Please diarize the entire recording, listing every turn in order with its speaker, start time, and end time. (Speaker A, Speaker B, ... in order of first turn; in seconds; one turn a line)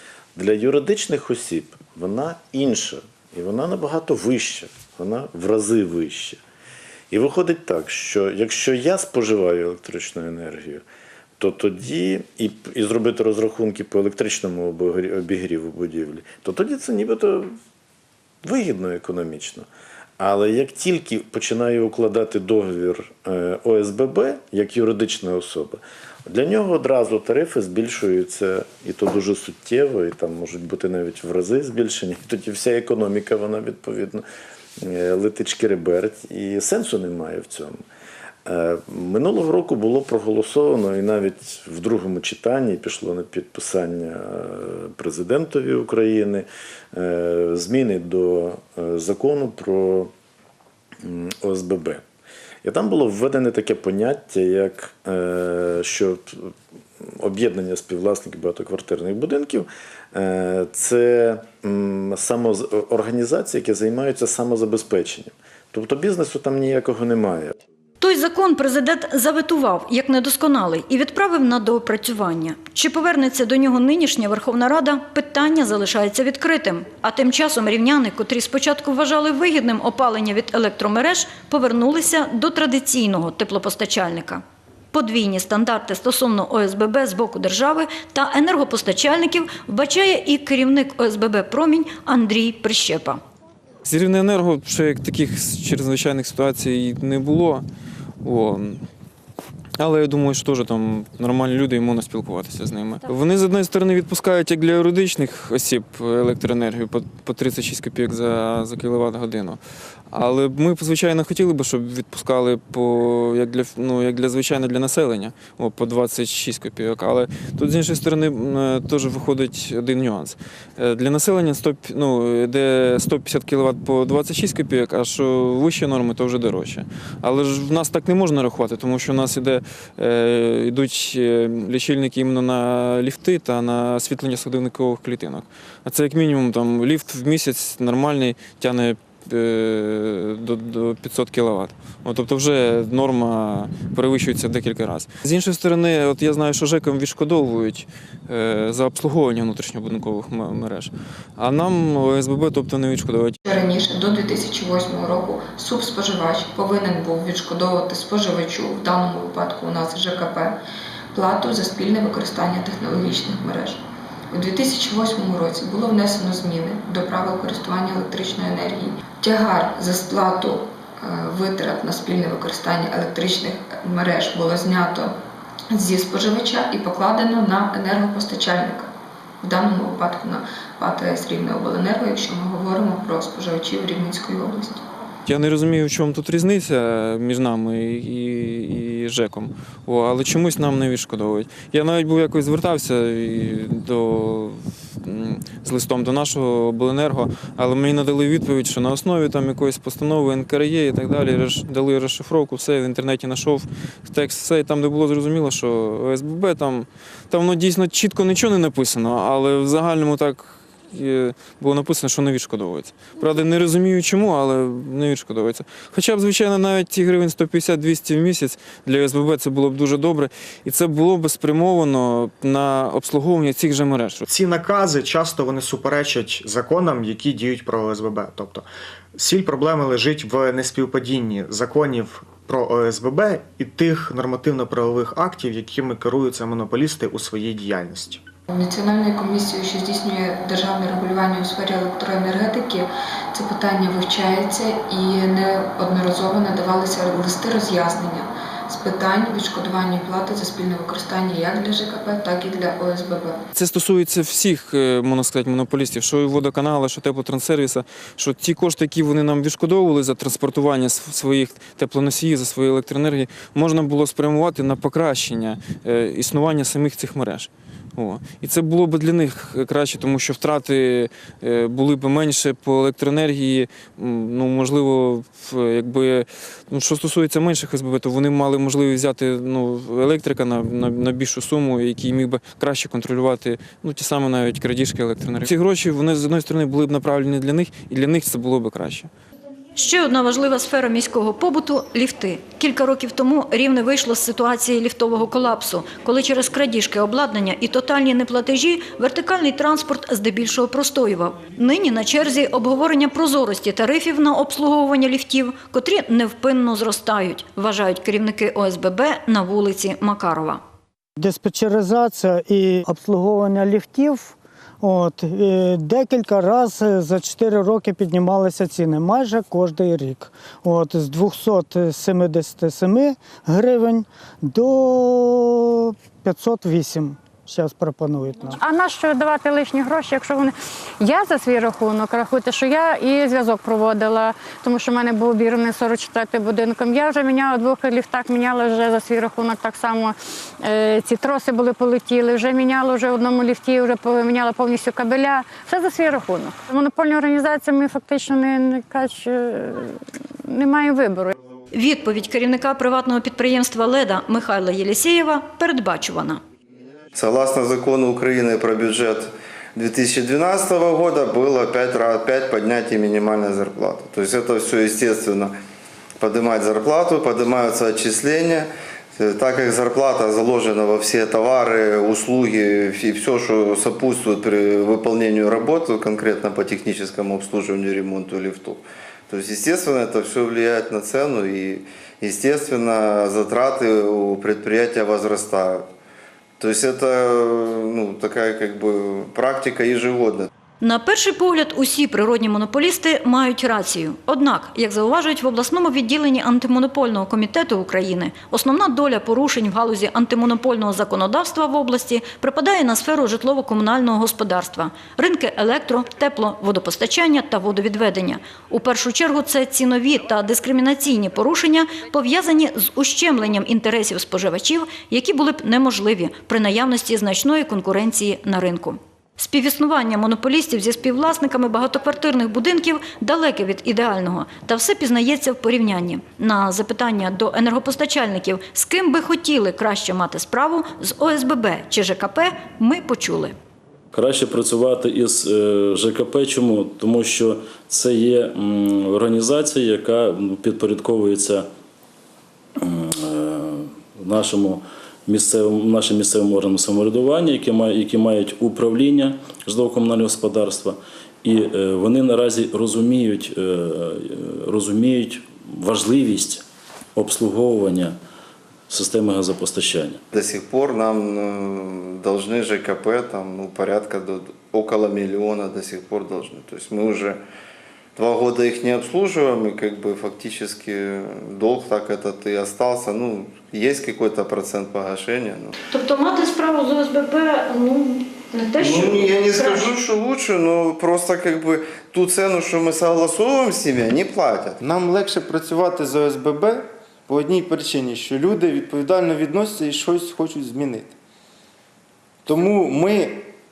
Speaker A: 0.3-6.4
Speaker A: 7.1-10.8
Speaker A: 11.4-17.6
Speaker A: 18.4-19.7
Speaker A: 20.2-34.2
Speaker A: 34.8-37.8
Speaker A: 38.4-50.1
Speaker A: 51.0-52.0
Speaker A: 52.6-67.6
Speaker B: 68.0-93.2
Speaker C: 93.8-97.6
Speaker C: 98.2-98.8
Speaker C: 99.8-109.6
Speaker C: 110.1-153.4
Speaker D: 153.4-160.6
Speaker D: 161.1-175.1
Speaker D: 175.7-178.9
Speaker D: 179.4-184.8
Speaker C: 185.2-224.2
Speaker E: 224.3-238.2
Speaker D: 238.5-253.4
Speaker C: 253.5-289.1
Speaker B: 289.7-310.6
Speaker F: 311.2-328.6
Speaker G: 328.6-351.4
Speaker B: 351.7-356.4
Speaker H: 357.1-365.5
Speaker H: 366.2-385.9
Speaker H: 386.6-390.5
Speaker B: 390.8-433.5
Speaker I: 434.1-441.7
Speaker I: 442.8-456.6
Speaker I: 457.1-458.2
Speaker I: 458.9-460.2
Speaker H: 460.3-467.4
Speaker H: 468.1-475.7
Speaker B: 475.9-479.9
Speaker H: 478.8-484.8
Speaker J: 484.8-491.1
Speaker J: 492.4-493.5